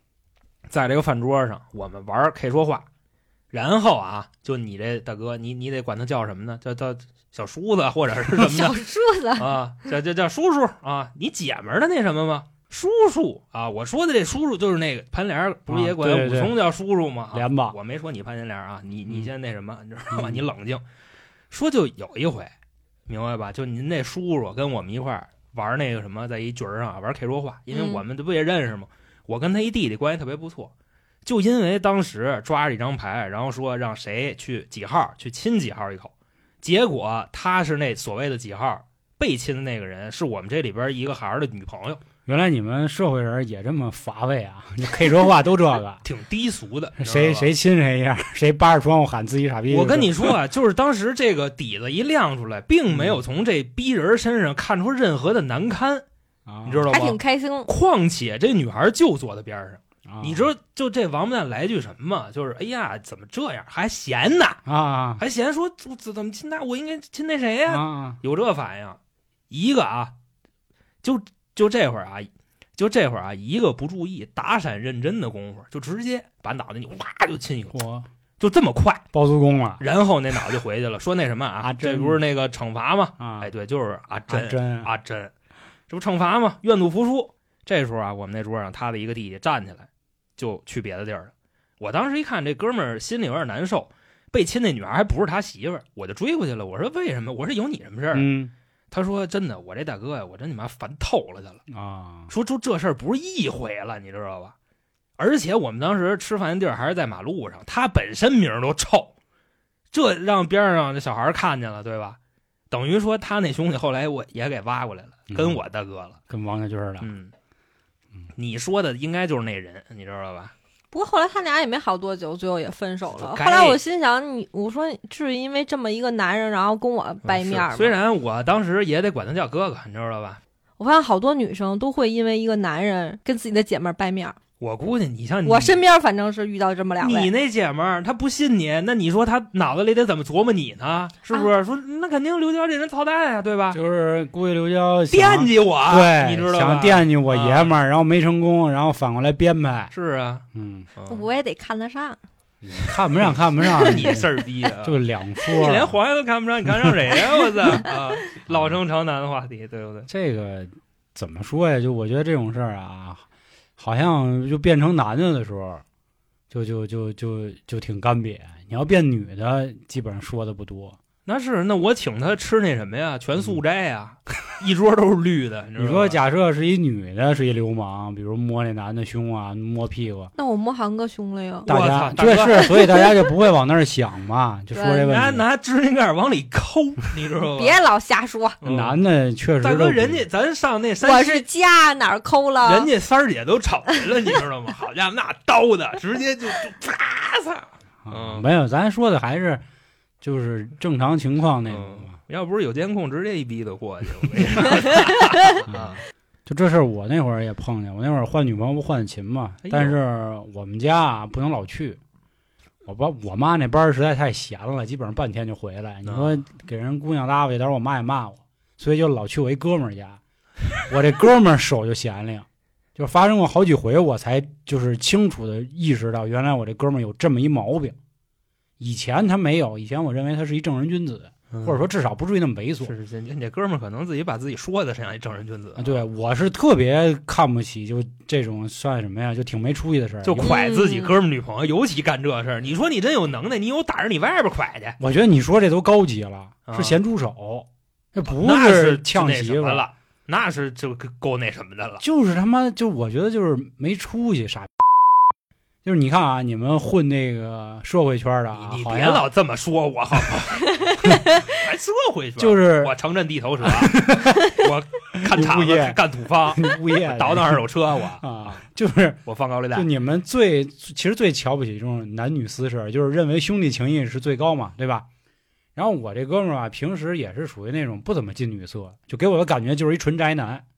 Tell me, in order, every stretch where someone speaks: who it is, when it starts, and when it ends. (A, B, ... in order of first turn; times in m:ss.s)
0:00.7-0:02.8 A
0:03.5-0:08.8 A
0:08.4-0:09.5 B
0:09.3-0:20.8 A
0:15.7-0:16.6 C
0:17.3-0:17.8 C
0:20.1-0:20.4 C
0:21.5-0:22.5 A
0:23.1-0:30.7 A
0:27.7-0:28.0 B
0:31.2-0:42.0 A
0:42.3-0:46.0 C
0:46.0-0:47.5 A
0:47.0-0:50.4 C
0:49.7-0:56.0 A
0:52.9-0:53.2 C
0:56.5-0:56.8 C
0:56.6-1:04.6 A
0:56.9-0:57.7 B
1:00.1-1:00.5 C
1:04.7-1:05.2 C
1:05.2-1:09.0 A
1:07.7-1:08.2 C
1:09.5-1:10.1 A
1:11.0-1:17.8 A
1:17.7-1:18.1 C
1:18.4-1:19.0 A
1:19.1-1:19.8 C
1:19.8-1:25.3 A
1:21.6-1:22.2 C
1:23.2-1:23.5 C
1:24.3-1:24.9 C
1:25.9-1:38.3 A
1:38.1-1:38.5 C
1:38.9-1:41.6 A
1:41.7-1:42.3 C
1:42.3-1:44.5 A
1:45.2-1:49.1 A
1:49.9-1:52.2 A
1:52.7-1:56.2 A
1:55.3-1:55.6 C
1:56.3-1:57.1 C
1:57.0-1:57.3 A
1:58.4-2:00.5 A
2:00.9-2:08.0 B
2:03.1-2:03.8 A
2:07.2-2:10.4 A
2:10.8-2:14.4 B
2:14.6-2:15.8 A
2:15.4-2:17.3 B
2:17.0-2:23.8 A
2:23.7-2:29.9 C
2:25.1-2:27.7 A
2:29.9-2:30.4 A
2:30.5-2:30.9 C
2:30.9-2:31.2 A
2:31.1-2:32.2 B
2:32.6-2:34.3 C
2:33.2-2:40.1 A
2:34.8-2:36.0 C
2:36.7-2:37.0 C
2:38.5-2:38.8 C
2:40.1-2:43.2 C
2:43.8-2:45.8 C
2:46.5-2:51.0 C
2:51.2-2:56.2 A
2:55.8-3:00.3 C
3:00.4-3:01.7 B
3:01.6-3:05.4 C
3:01.7-3:02.8 A
3:02.4-3:03.3 B
3:04.7-3:05.1 B
3:05.0-3:07.8 A
3:07.5-3:08.6 B
3:08.6-3:09.0 A
3:08.6-3:10.2 C
3:09.6-3:11.4 A
3:11.0-3:12.9 B
3:12.6-3:18.5 A
3:18.0-3:19.6 C
3:20.2-3:22.1 C
3:21.7-3:26.0 A
3:25.7-3:32.0 C
3:29.6-3:30.0 A
3:32.8-3:40.2 C
3:36.0-3:36.4 A
3:40.8-3:47.9 C
3:48.8-3:52.9 C
3:51.5-3:51.9 A
3:52.8-3:56.0 A
3:55.8-4:00.6 C
4:00.2-4:05.0 A
4:00.4-4:01.1 B
4:05.0-4:09.8 C
4:06.6-4:07.0 A
4:08.3-4:12.0 A
4:12.0-4:14.8 C
4:15.8-4:19.3 C
4:18.5-4:28.6 A
4:20.8-4:21.5 B
4:22.4-4:22.9 C
4:23.6-4:24.7 C
4:25.2-4:29.2 C
4:29.2-4:29.9 A
4:29.7-4:35.0 C
4:35.8-4:40.6 C